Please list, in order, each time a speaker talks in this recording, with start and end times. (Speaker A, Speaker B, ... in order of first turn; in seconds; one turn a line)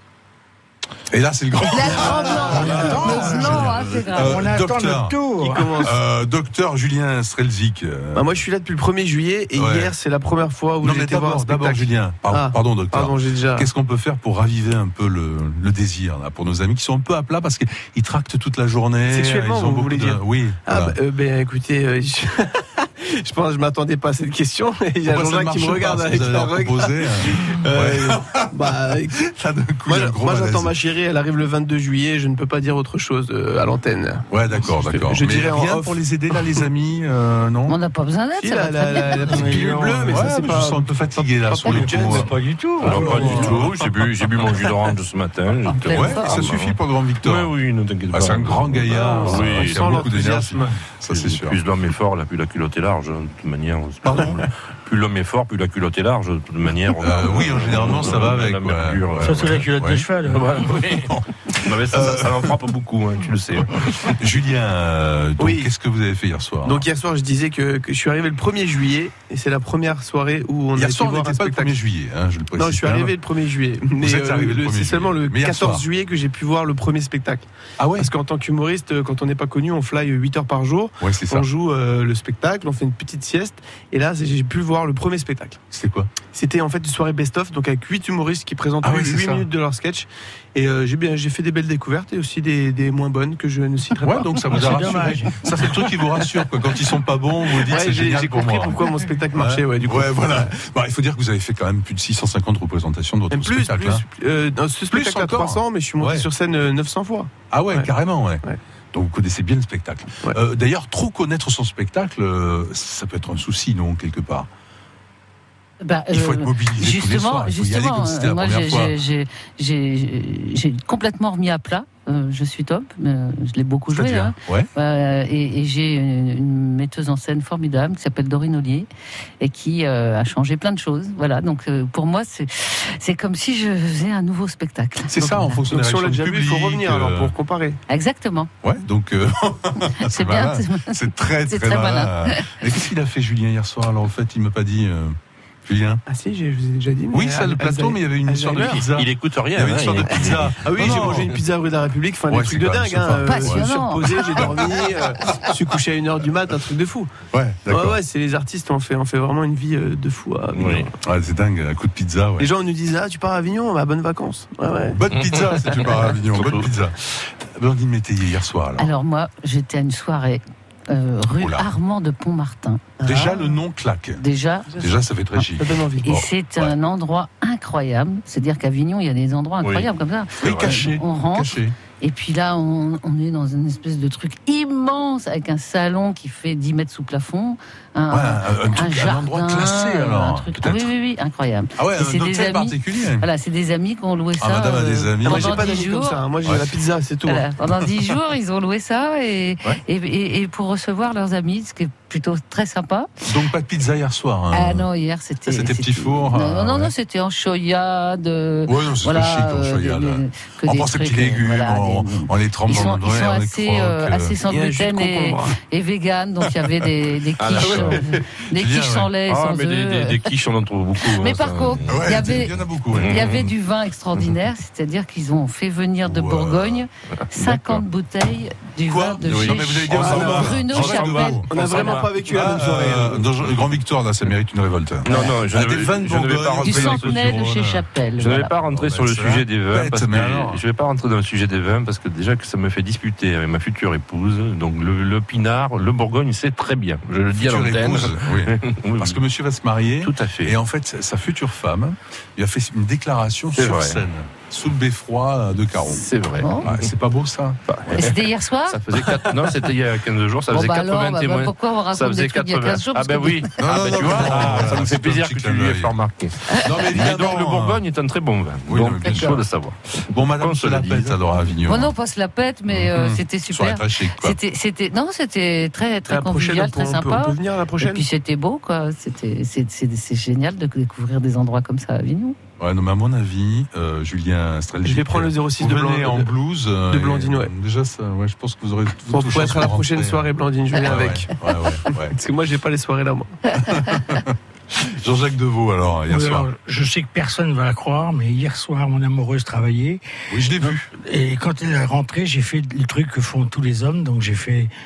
Speaker A: 1.1-5.2
Speaker B: 1.8-5.8
Speaker C: 1.8-4.4
Speaker D: 5.4-6.0
Speaker A: 5.8-8.4
Speaker D: 8.1-13.7
Speaker A: 9.5-9.9
Speaker A: 10.8-21.0
Speaker D: 19.1-29.2
Speaker A: 25.1-30.7
Speaker D: 29.9-36.4
Speaker A: 34.3-37.8
Speaker C: 37.7-39.3
Speaker D: 38.4-42.3
Speaker B: 39.2-40.6
Speaker A: 40.1-43.9
Speaker B: 41.6-43.6
Speaker E: 42.8-50.0
Speaker C: 45.7-46.5
Speaker A: 45.9-47.5
Speaker A: 48.1-51.6
Speaker D: 48.9-50.7
Speaker E: 51.1-59.7
Speaker A: 54.0-54.4
Speaker A: 57.0-60.0
Speaker B: 59.2-60.7
Speaker E: 60.3-64.2
Speaker A: 60.9-62.5
Speaker A: 64.0-66.9
Speaker D: 65.4-65.7
Speaker D: 66.6-71.8
Speaker A: 70.7-73.1
Speaker D: 72.5-85.6
Speaker A: 74.0-75.8
Speaker A: 77.8-78.1
Speaker A: 81.0-81.5
Speaker A: 85.7-86.1
Speaker D: 86.3-94.3
Speaker A: 88.8-89.5
Speaker A: 94.0-104.0
Speaker B: 94.5-95.6
Speaker D: 97.6-100.5
Speaker D: 103.3-107.9
Speaker A: 104.9-106.3
Speaker A: 107.5-114.5
Speaker C: 115.8-128.9
Speaker A: 116.1-119.0
Speaker A: 123.9-124.7
Speaker C: 129.4-135.6
Speaker A: 135.1-137.3
Speaker D: 135.2-137.8
Speaker C: 137.9-138.5
Speaker A: 138.6-146.0
Speaker C: 140.0-142.5
Speaker D: 146.1-148.8
Speaker A: 147.1-151.3
Speaker E: 148.8-151.2
Speaker D: 150.6-157.1
Speaker A: 152.3-154.6
Speaker C: 153.2-154.5
Speaker A: 157.3-158.0
Speaker D: 157.7-160.9
Speaker E: 160.5-160.9
Speaker A: 161.0-162.5
Speaker D: 162.4-165.0
Speaker A: 164.9-168.9
Speaker E: 165.1-166.7
Speaker C: 168.8-173.0
Speaker A: 171.3-171.7
Speaker D: 173.0-173.4
Speaker A: 173.0-174.2
Speaker C: 174.2-174.8
Speaker A: 174.8-176.7
Speaker D: 175.5-176.1
Speaker C: 176.0-196.3
Speaker E: 179.6-179.9
Speaker A: 180.4-181.8
Speaker E: 180.4-180.8
Speaker A: 188.1-190.9
Speaker A: 191.8-193.3
Speaker A: 194.4-195.7
Speaker D: 195.2-197.4
Speaker A: 196.4-196.7
Speaker C: 197.2-203.1
Speaker A: 203.2-204.9
Speaker C: 204.5-220.3
Speaker A: 205.5-206.9
Speaker A: 208.7-214.4
Speaker D: 214.5-215.6
Speaker E: 217.4-218.0
Speaker A: 217.5-219.1
Speaker E: 219.3-222.3
Speaker C: 221.0-232.1
Speaker A: 221.9-223.5
Speaker E: 222.9-223.4
Speaker A: 226.0-226.8
Speaker E: 227.4-227.8
Speaker A: 228.9-237.8
Speaker E: 229.3-232.4
Speaker D: 230.0-230.4
Speaker D: 231.5-233.2
Speaker E: 235.1-237.4
Speaker C: 236.6-238.5
Speaker E: 238.2-249.2
Speaker A: 238.7-240.6
Speaker A: 247.3-256.1
Speaker E: 250.0-250.5
Speaker E: 253.6-254.0
Speaker E: 255.9-256.9
Speaker C: 256.4-256.7
Speaker A: 256.6-257.6
Speaker E: 257.7-271.3
Speaker C: 257.9-258.8
Speaker C: 260.5-263.6
Speaker A: 263.6-265.9
Speaker A: 266.6-267.8
Speaker A: 268.7-269.4
Speaker A: 270.1-271.9
Speaker C: 271.6-282.4
Speaker A: 272.7-274.4
Speaker D: 276.1-278.1
Speaker A: 282.6-292.1
Speaker D: 284.8-286.3
Speaker D: 286.9-287.5
Speaker D: 289.1-291.3
Speaker D: 292.1-293.4
Speaker A: 293.5-296.5
Speaker B: 296.1-300.0
Speaker A: 300.3-300.9
Speaker B: 300.6-304.7